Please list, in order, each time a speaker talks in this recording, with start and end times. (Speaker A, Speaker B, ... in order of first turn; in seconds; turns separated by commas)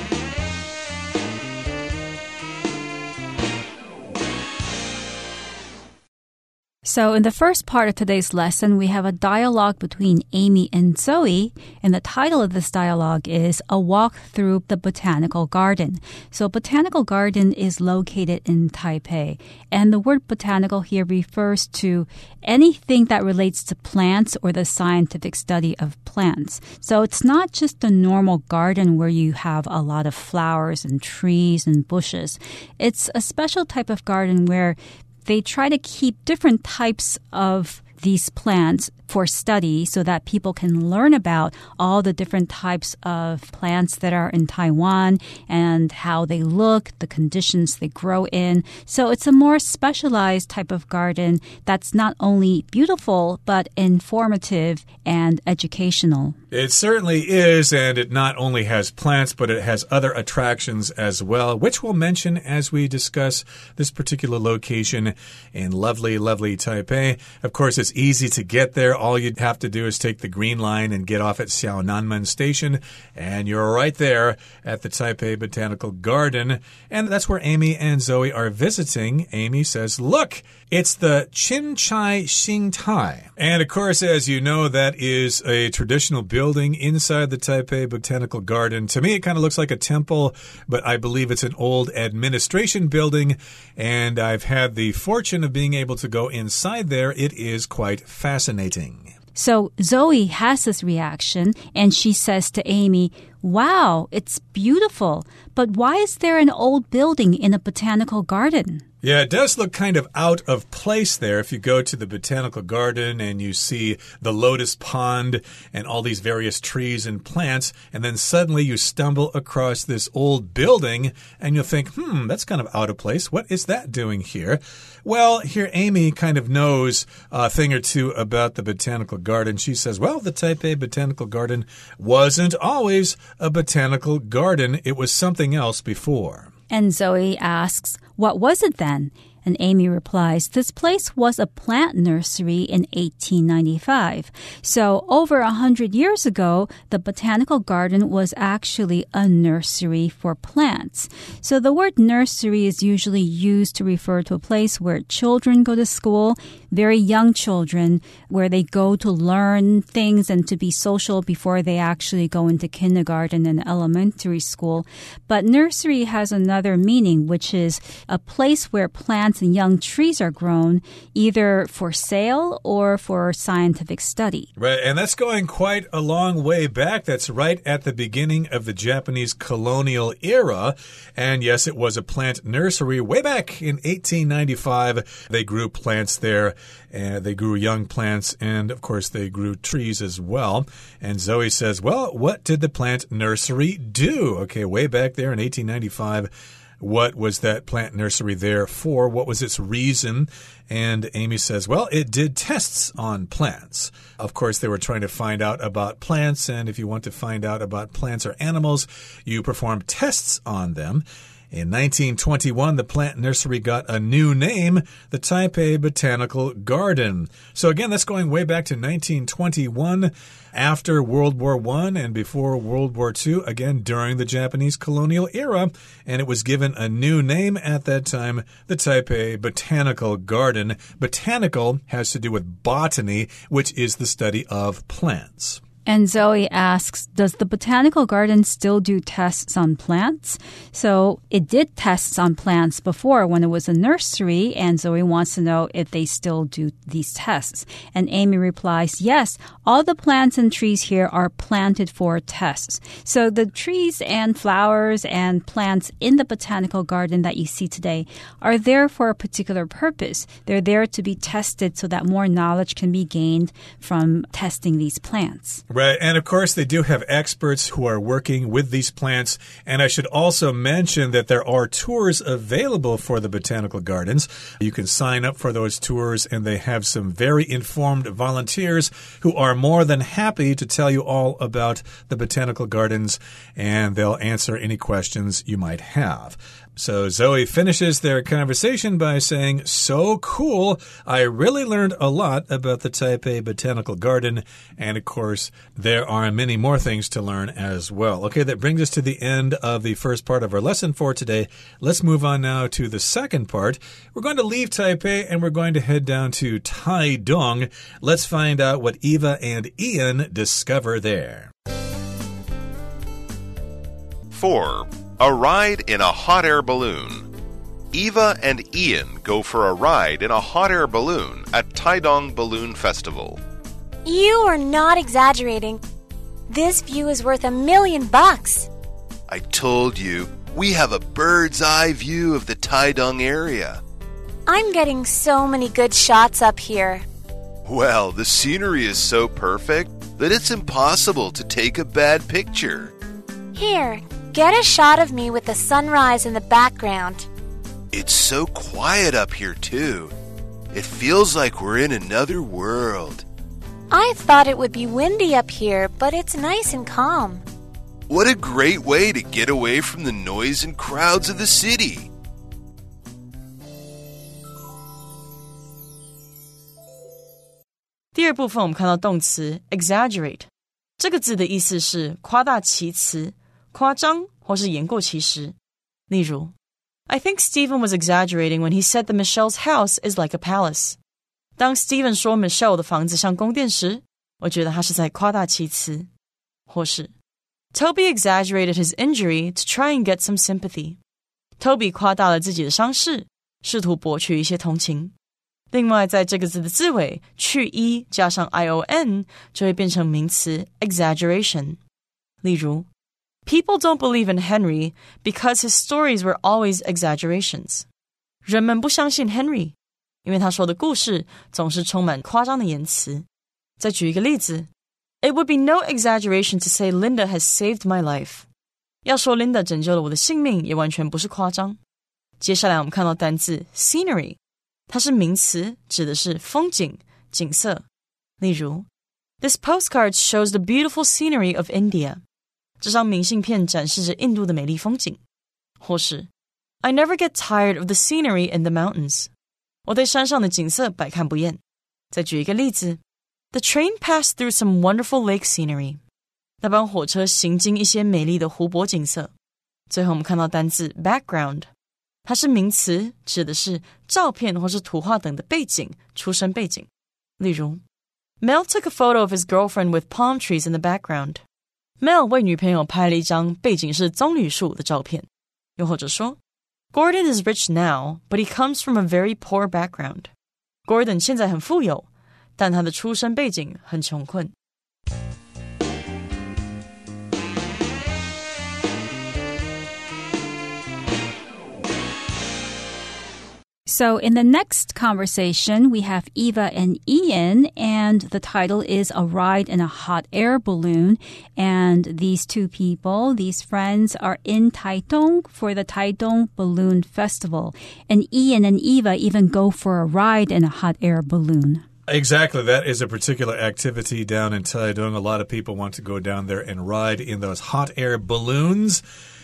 Speaker A: 6.8-56.4, Speaker B: 56.5-99.1, Speaker A: 99.4-108.8, Speaker B: 109.0-136.5, Speaker A: 136.7-174.5, Speaker B: 174.6-235.6, Speaker A: 235.9-265.6, Speaker B: 265.7-311.5, Speaker C: 314.3-317.3, Speaker C: 317.9-323.4, Speaker D: 324.1-325.8, Speaker D: 326.5-328.7, Speaker C: 329.3-333.8, Speaker D: 334.5-337.1, Speaker C: 337.7-342.9, Speaker D: 343.5-347.3, Speaker C: 347.9-350.1, Speaker C: 350.7-353.2, Speaker D: 353.9-357.4, Speaker C: 358.1-362.1, Speaker E: 368.1-370.5, Speaker E: 371.0-375.6, Speaker E: 376.1-376.5, Speaker E: 377.1-381.0, Speaker E: 381.6-386.1, Speaker E: 386.7-387.1, Speaker E: 387.7-391.0, Speaker E: 391.6-395.1, Speaker E: 395.7-401.8, Speaker E: 402.4-402.9, Speaker E: 403.5-407.9, Speaker E: 408.4-409.7, Speaker E: 410.2-413.2, Speaker E: 413.8-414.7, Speaker E: 415.2-418.5, Speaker E: 419.1-421.8, Speaker E: 422.4-424.4, Speaker E: 424.9-427.8, Speaker E: 428.4-428.9, Speaker E: 429.4-432.2, Speaker E: 432.8-435.2, Speaker E: 435.8-436.3, Speaker E: 436.8-439.3, Speaker E: 439.9-441.6, Speaker E: 442.1-443.0, Speaker E: 443.5-446.0, Speaker E: 446.6-449.3, Speaker E: 449.9-451.7, Speaker E: 452.3-456.9, Speaker E: 457.4-457.8, Speaker E: 458.4-461.4, Speaker E: 462.0-466.4, Speaker E: 466.9-470.3, Speaker E: 470.9-474.5, Speaker A: 483.9-501.8, Speaker B: 502.1-509.0